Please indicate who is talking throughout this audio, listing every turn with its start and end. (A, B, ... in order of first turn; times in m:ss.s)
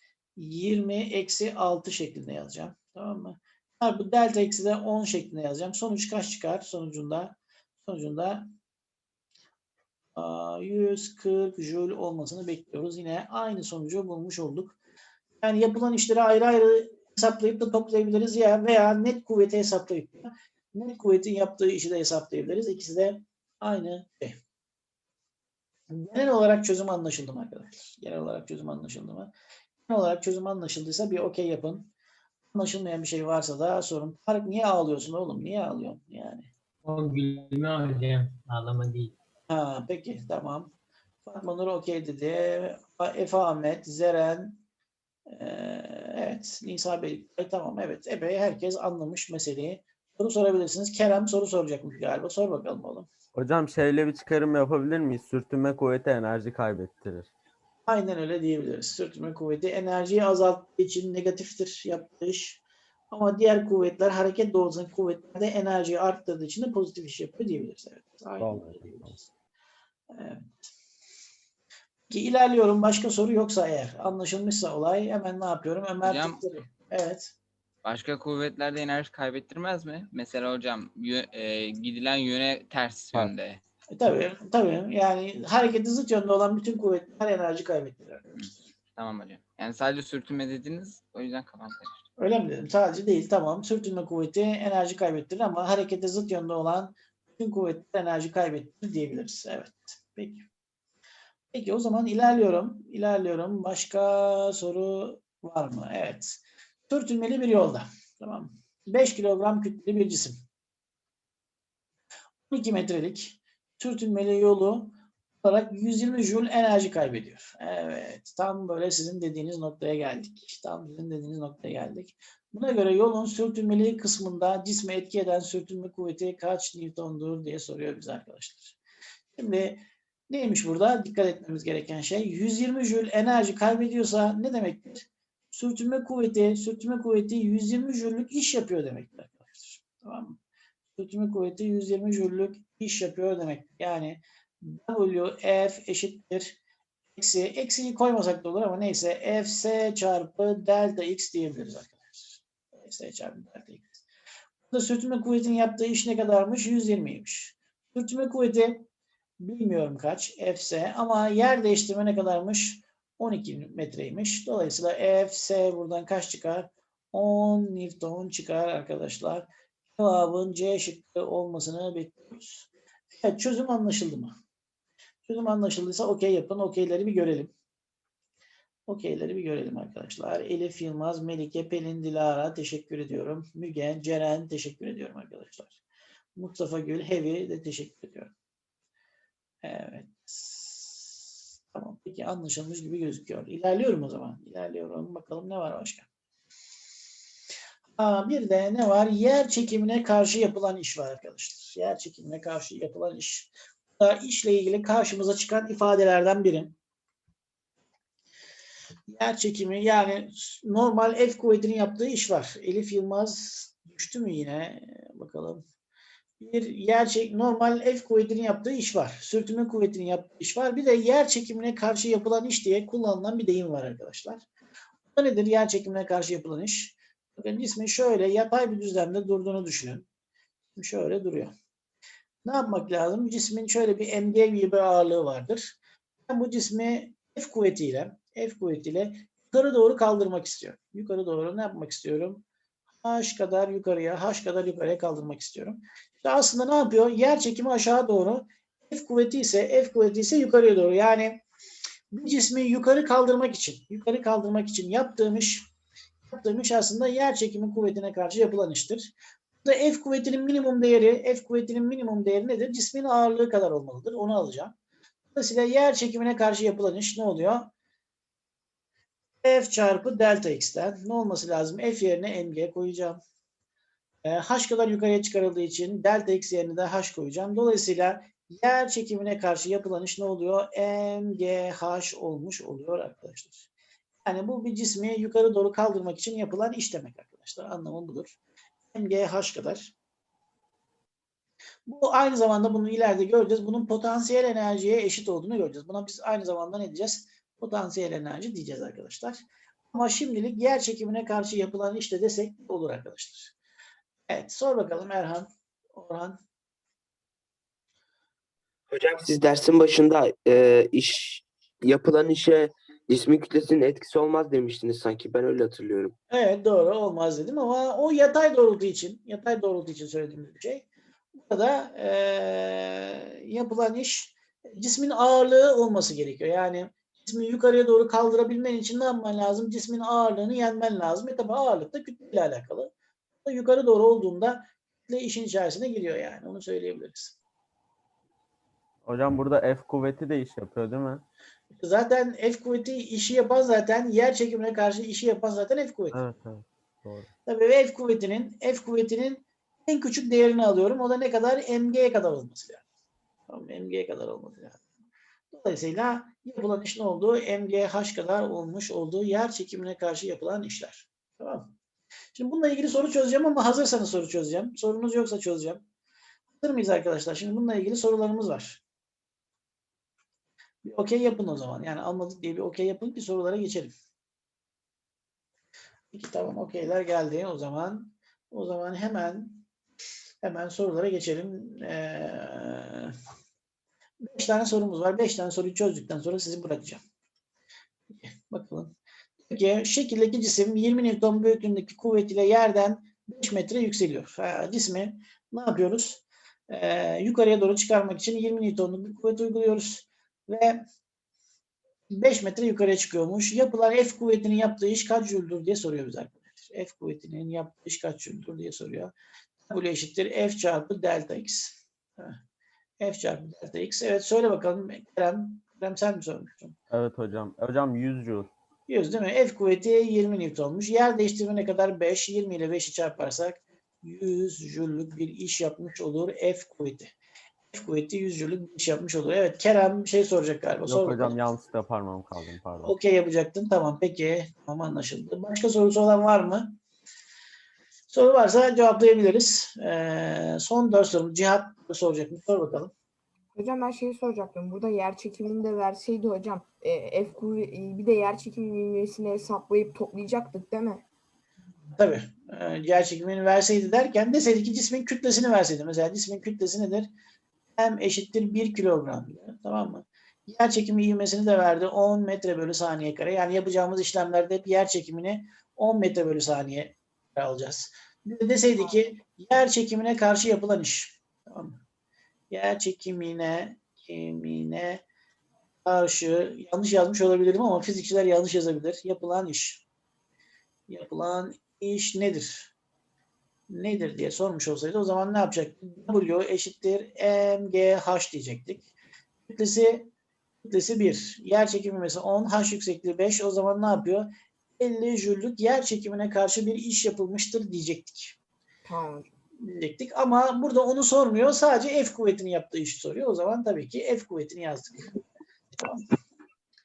0:00.4-0:08.5 A
0:10.2-0:14.8 A
0:15.4-0:24.4 A
0:25.9-0:29.3 A
0:29.9-0:31.9 A
0:32.5-0:36.5 A
0:36.8-0:39.1 B
0:39.5-0:40.7 A
0:41.2-0:44.6 A
0:45.3-0:53.1 A
0:53.3-0:57.3 C
0:57.8-1:02.6 A
1:03.1-1:09.2 A
1:08.4-1:09.2 C
1:10.1-1:10.6 A
1:12.1-1:17.3 A
1:16.0-1:16.4 D
1:17.8-1:23.6 D
1:23.9-1:28.4 A
1:28.4-1:32.0 D
1:32.2-1:40.4 A
1:41.5-1:50.4 A
1:52.5-2:08.8 A
2:09.3-2:20.4 A
2:21.0-2:26.5 A
2:27.2-2:34.0 A
2:34.7-2:38.8 A
2:39.4-2:52.7 A
2:53.2-2:54.3 A
2:55.3-2:57.5 A
2:58.9-3:05.8 A
3:06.4-3:08.3 A
3:09.6-3:11.2 A
3:11.7-3:16.1 A
3:18.0-3:26.8 A
3:29.1-3:35.6 A
3:36.4-3:44.4 A
3:45.1-3:50.0 A
3:50.8-3:51.5 A
3:52.4-3:55.7 A
3:56.3-4:02.4 A
4:03.0-4:11.4 A
4:12.1-4:15.6 A
4:16.3-4:19.1 A
4:19.6-4:24.7 A
4:25.3-4:27.7 A
4:29.4-4:33.2 A
4:34.2-4:43.6 A
4:44.2-4:48.4 A
4:48.9-4:49.9 A
4:51.9-5:03.5 A
5:04.3-5:06.4 A
5:08.9-5:16.1 E
5:16.3-5:20.8 A
5:21.4-5:32.9 A
5:33.4-5:37.3 A
5:39.0-5:41.2 C
5:41.8-5:46.2 A
5:46.1-5:47.3 C
5:47.4-5:52.8 A
5:53.5-5:54.8 A
5:55.5-6:01.7 A
6:02.3-6:05.8 A
6:06.6-6:08.8 A
6:10.8-6:13.9 A
6:16.1-6:19.6 A
6:20.4-6:23.1 A
6:24.2-6:27.0 A
6:28.1-6:28.9 A
6:29.5-6:40.8 A
6:42.1-6:49.1 A
6:49.7-6:52.4 A
6:53.0-6:56.8 A
6:56.9-6:58.5 C
6:58.9-7:07.1 A
7:07.7-7:11.4 A
7:10.8-7:12.9 C
7:12.8-7:16.8 A
7:18.1-7:22.9 A
7:23.5-7:31.0 F
7:32.0-7:37.1 A
7:37.8-7:51.8 A
7:52.5-7:55.0 A
7:55.8-7:59.8 A
8:00.9-8:02.7 A
8:03.7-8:08.9 A
8:09.5-8:10.1 A
8:10.6-8:18.4 A
8:18.8-8:19.3 F
8:19.6-8:25.1 A
8:25.8-8:26.0 A